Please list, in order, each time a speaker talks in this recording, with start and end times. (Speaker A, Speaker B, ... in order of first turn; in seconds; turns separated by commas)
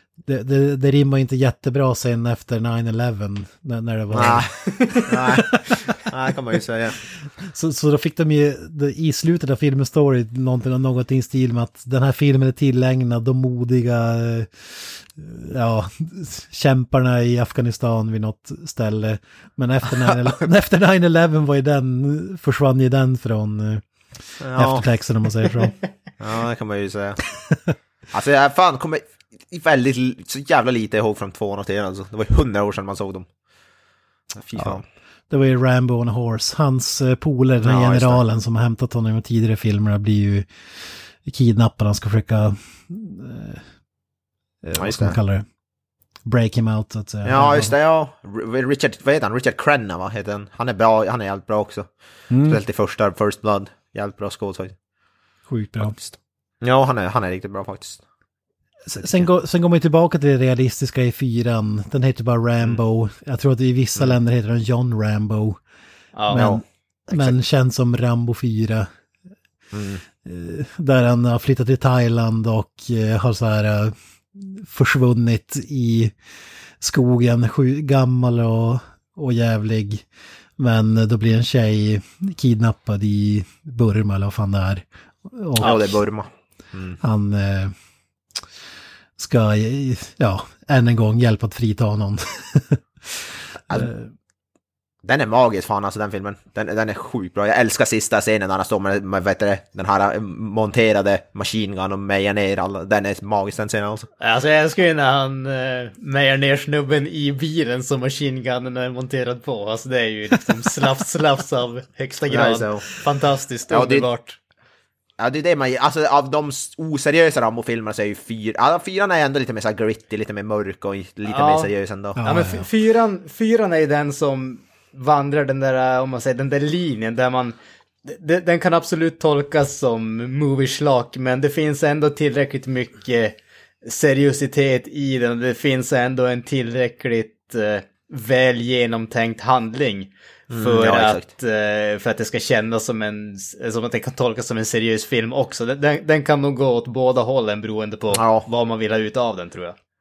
Speaker A: 0.2-4.5, Speaker B: 4.1-7.0, Speaker A: 7.5-23.8, Speaker B: 20.0-20.3, Speaker B: 24.4-24.9, Speaker A: 24.5-25.7, Speaker B: 26.2-27.2, Speaker B: 28.1-33.3, Speaker B: 34.3-34.8, Speaker A: 34.5-40.5, Speaker B: 37.6-38.2, Speaker A: 41.2-43.6, Speaker A: 44.6-45.4, Speaker B: 44.8-45.1, Speaker A: 46.2-47.7, Speaker B: 47.2-51.9, Speaker A: 52.3-52.6, Speaker B: 52.4-54.7, Speaker A: 55.5-55.9, Speaker B: 55.8-58.0, Speaker A: 58.9-65.6, Speaker B: 59.0-59.3, Speaker C: 66.1-66.5, Speaker A: 66.3-68.9, Speaker B: 66.3-67.3, Speaker B: 69.7-70.0, Speaker A: 70.2-76.1, Speaker A: 76.8-80.0, Speaker A: 80.6-86.0, Speaker B: 85.6-87.0, Speaker A: 87.0-87.7, Speaker A: 89.2-94.1, Speaker B: 95.0-104.1, Speaker C: 104.2-114.4, Speaker B: 112.3-112.8, Speaker B: 113.7-114.1, Speaker B: 115.2-122.2, Speaker C: 121.3-149.7, Speaker A: 122.2-122.6, Speaker B: 140.5-141.3, Speaker B: 148.1-148.4